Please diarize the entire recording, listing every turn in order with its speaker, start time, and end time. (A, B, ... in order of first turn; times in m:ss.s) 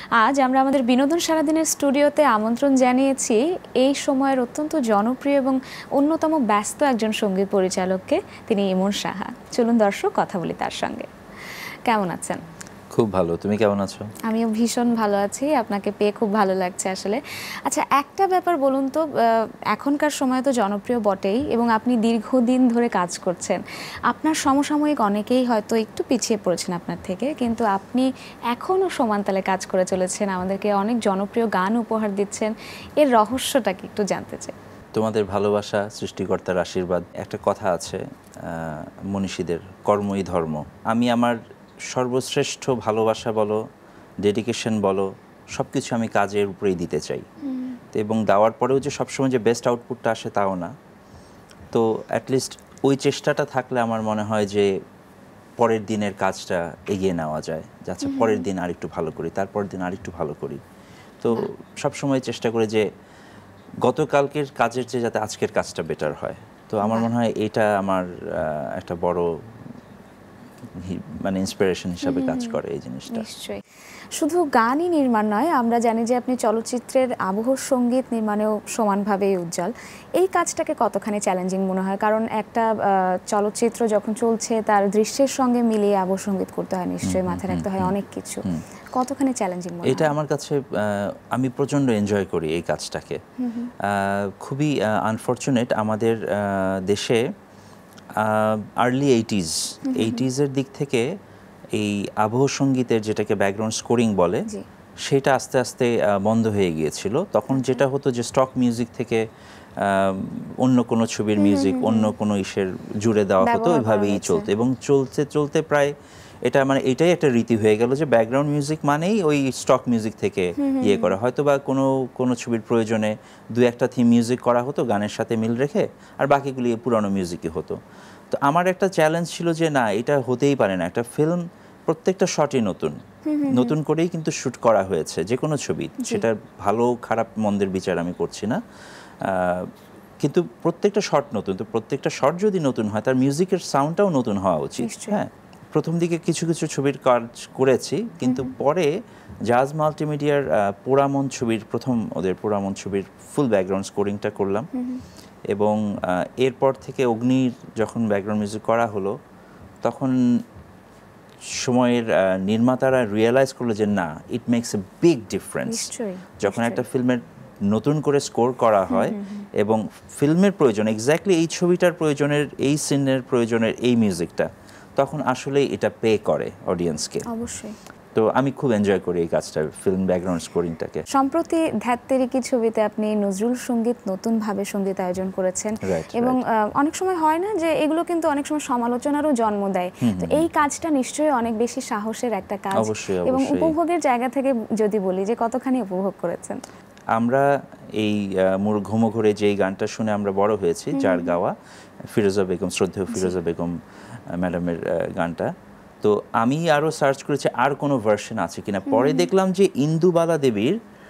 0:00.2-0:11.1 A
0:11.9-0:12.4 A
0:12.9-0:14.1 B
0:14.3-0:34.5 A
0:35.0-0:41.4 B
0:41.9-0:43.6 B
0:44.2-0:47.2 B
0:47.4-0:47.8 A
0:47.9-0:50.7 B
0:51.7-0:54.7 B
0:55.6-1:00.6 B
0:58.0-0:58.4 A
1:01.2-1:02.8 B
1:03.8-1:09.2 B
1:06.8-1:07.1 A
1:10.8-1:13.2 B
1:12.0-1:12.6 A
1:13.1-1:13.6 A
1:14.2-1:22.7 A
1:23.3-1:28.4 A
1:27.0-1:28.6 B
1:29.0-1:30.1 A
1:29.8-1:33.2 B
1:33.4-1:33.7 A
1:33.8-1:37.2 B
1:38.2-1:41.0 B
1:39.9-1:40.2 A
1:41.8-1:44.4 B
1:45.0-1:49.2 B
1:47.5-1:47.8 A
1:49.8-1:55.9 B
1:51.4-1:52.1 A
1:53.4-1:54.5 A
1:56.4-2:07.8 B
2:00.6-2:01.2 A
2:08.3-2:18.6 B
2:13.3-2:13.7 A
2:16.0-2:16.2 A
2:19.2-2:19.7 B
2:20.2-2:28.9 B
2:24.8-2:25.2 A
2:28.2-2:28.5 A
2:29.5-2:34.7 B
2:34.7-2:35.0 A
2:35.5-2:39.1 B
2:39.8-2:40.2 B
2:41.6-2:45.9 B
2:45.6-2:46.8 A
2:46.4-2:57.2 B
2:48.9-2:49.4 A
2:57.3-2:57.8 A
2:58.1-3:01.0 B
3:01.1-3:16.6 A
3:05.8-3:06.4 B
3:10.0-3:10.4 B
3:12.8-3:13.7 B
3:17.1-3:17.4 B
3:18.0-3:21.5 B
3:20.9-3:21.4 A
3:22.1-3:23.8 B
3:24.3-3:25.5 B
3:26.0-3:30.8 B
3:28.9-3:29.3 A